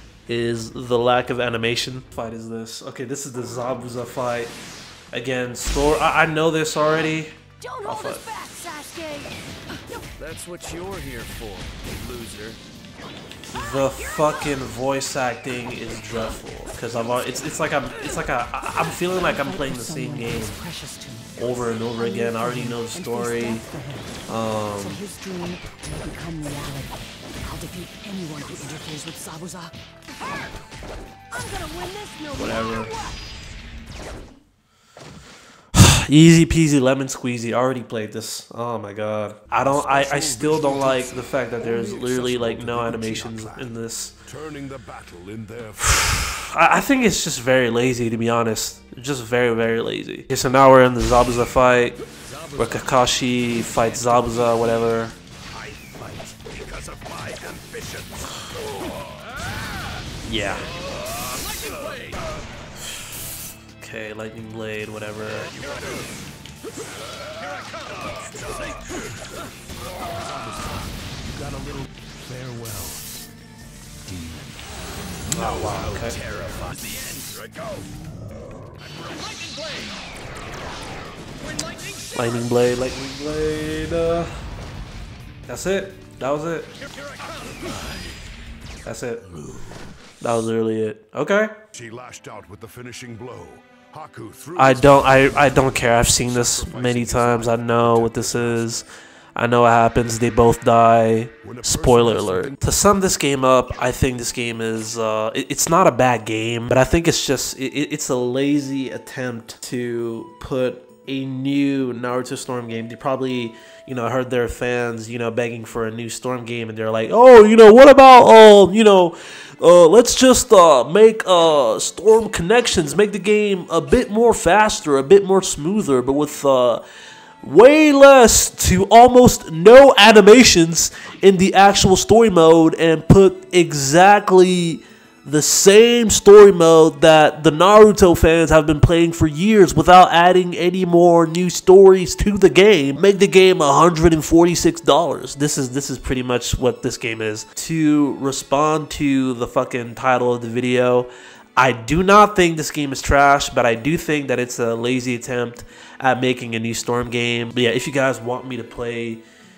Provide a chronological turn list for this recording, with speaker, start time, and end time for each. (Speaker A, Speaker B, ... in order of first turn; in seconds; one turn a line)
Speaker A: 0.3-4.5
Speaker A: 5.1-8.3
Speaker B: 7.6-10.1
Speaker C: 10.2-12.6
Speaker A: 13.5-20.6
Speaker B: 19.1-24.2
Speaker A: 21.4-23.7
Speaker A: 24.3-25.0
Speaker B: 24.8-30.5
Speaker B: 31.3-33.2
Speaker A: 32.3-33.0
Speaker A: 35.7-44.2
Speaker D: 39.6-46.0
Speaker A: 45.8-52.0
Speaker D: 52.2-52.8
Speaker A: 52.5-55.2
Speaker D: 53.7-54.6
Speaker D: 55.7-58.3
Speaker A: 60.2-60.7
Speaker D: 61.3-62.2
Speaker A: 63.8-65.6
Speaker D: 65.4-66.1
Speaker D: 67.7-69.0
Speaker D: 70.1-73.0
Speaker D: 74.1-74.4
Speaker A: 75.3-76.2
Speaker D: 75.3-77.8
Speaker D: 78.9-79.9
Speaker A: 82.1-84.4
Speaker A: 85.5-86.7
Speaker A: 88.8-89.3
Speaker A: 90.2-91.6
Speaker D: 91.7-98.8
Speaker A: 94.6-126.8
Speaker D: 101.4-102.6
Speaker A: 127.4-159.2